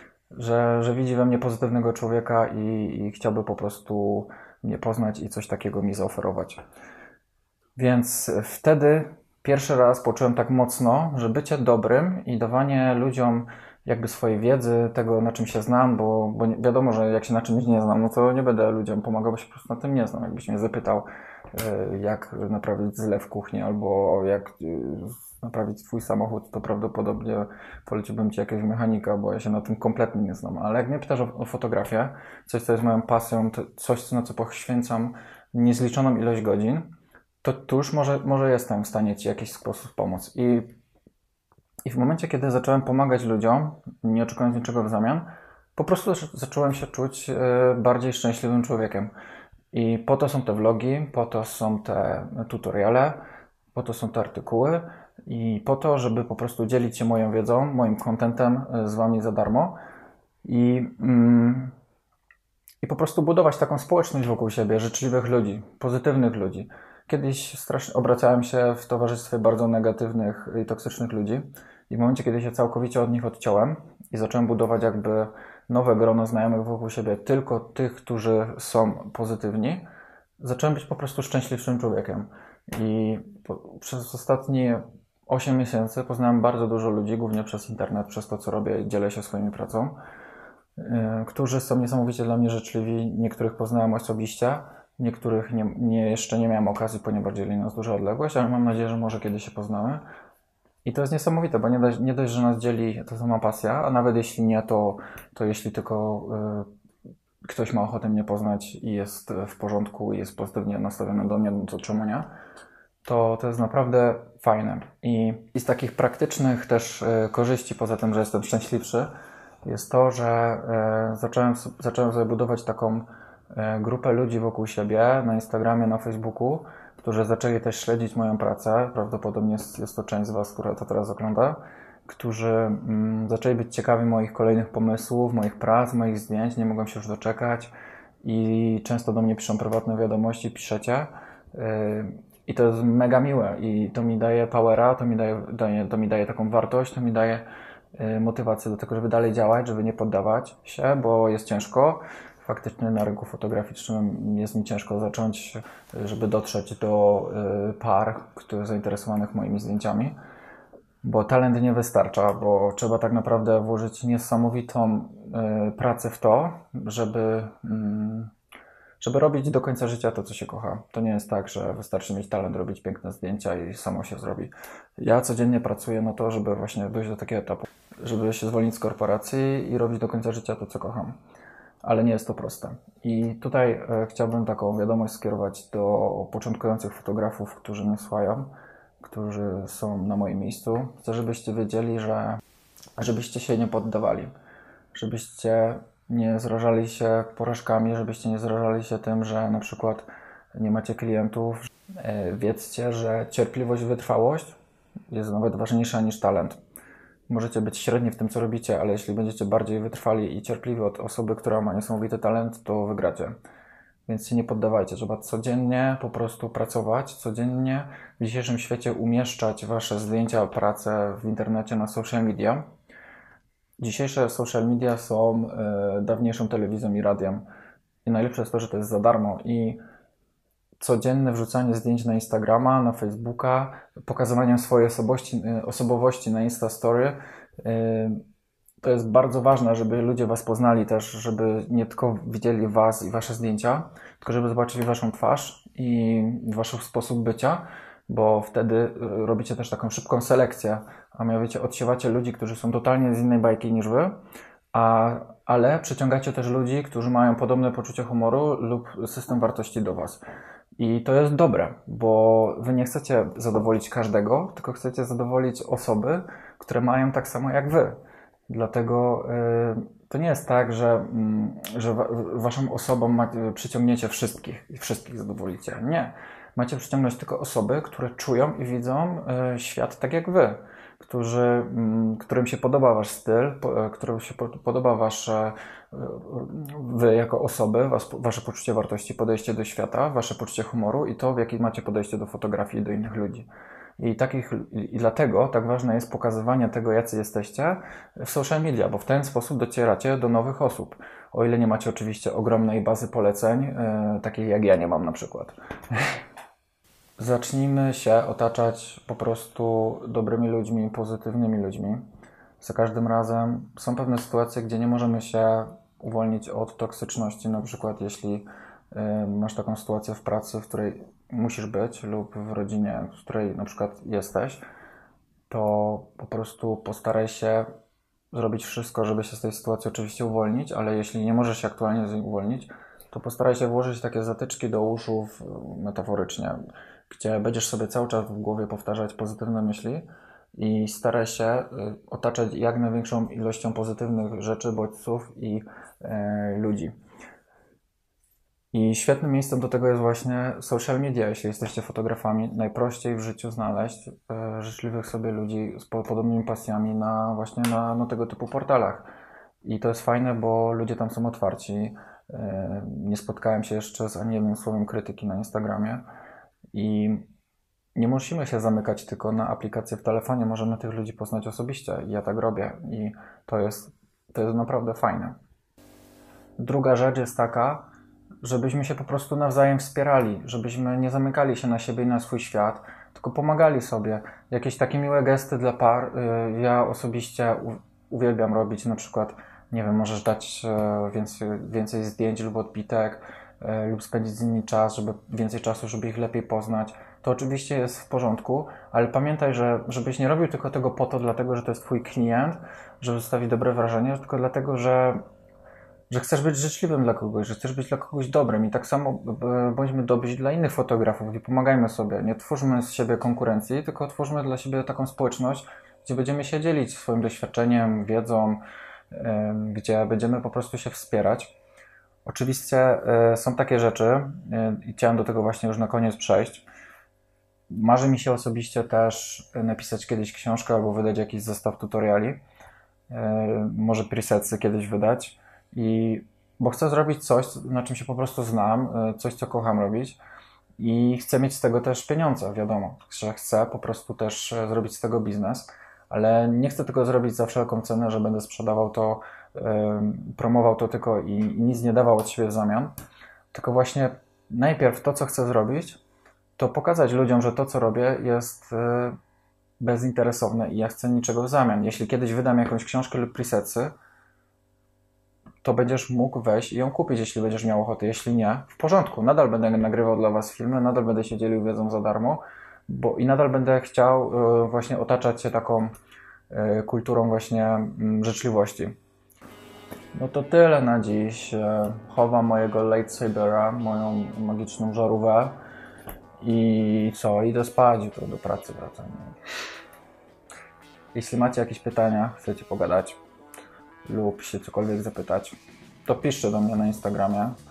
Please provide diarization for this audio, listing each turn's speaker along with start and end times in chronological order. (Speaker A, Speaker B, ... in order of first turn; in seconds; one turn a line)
Speaker A: 0.3-6.6
Speaker A: 7.8-36.9
Speaker A: 37.4-40.7
Speaker A: 41.9-49.1
Speaker A: 49.7-53.2
Speaker A: 53.7-59.8
Speaker A: 60.4-61.8
Speaker A: 62.8-79.8
Speaker A: 80.4-90.0
Speaker A: 90.8-100.0
Speaker A: 100.8-106.7
Speaker A: 107.5-112.3
Speaker A: 113.0-119.1
Speaker A: 119.6-137.7
Speaker A: 138.2-160.1
Speaker A: 161.0-168.3
Speaker A: 169.0-181.2
Speaker A: 181.8-192.4
Speaker A: 193.0-194.3
Speaker A: 194.9-204.6
Speaker A: 205.1-206.6
Speaker A: 207.3-213.4
Speaker A: 214.1-222.6
Speaker A: 223.8-227.4
Speaker A: 228.0-229.8
Speaker A: 230.8-238.2
Speaker A: 238.8-254.2
Speaker A: 254.7-260.2
Speaker A: 260.8-268.0
Speaker A: 268.5-293.5
Speaker A: 294.0-306.2
Speaker A: 307.2-312.0
Speaker A: 312.6-324.6
Speaker A: 325.5-327.7
Speaker A: 328.3-336.6
Speaker A: 337.1-346.9
Speaker A: 348.7-359.1
Speaker A: 359.6-366.0
Speaker A: 366.7-367.2
Speaker A: 367.9-375.4
Speaker A: 376.6-377.9
Speaker A: 378.4-405.2
Speaker A: 406.1-421.5
Speaker A: 422.2-426.6
Speaker A: 427.7-432.4
Speaker A: 433.1-440.2
Speaker A: 440.8-452.9
Speaker A: 453.5-456.0
Speaker A: 456.6-459.2
Speaker A: 459.8-463.9
Speaker A: 465.6-475.9
Speaker A: 476.5-478.9
Speaker A: 480.1-485.6
Speaker A: 486.4-489.4
Speaker A: 491.1-493.2
Speaker A: 494.1-497.6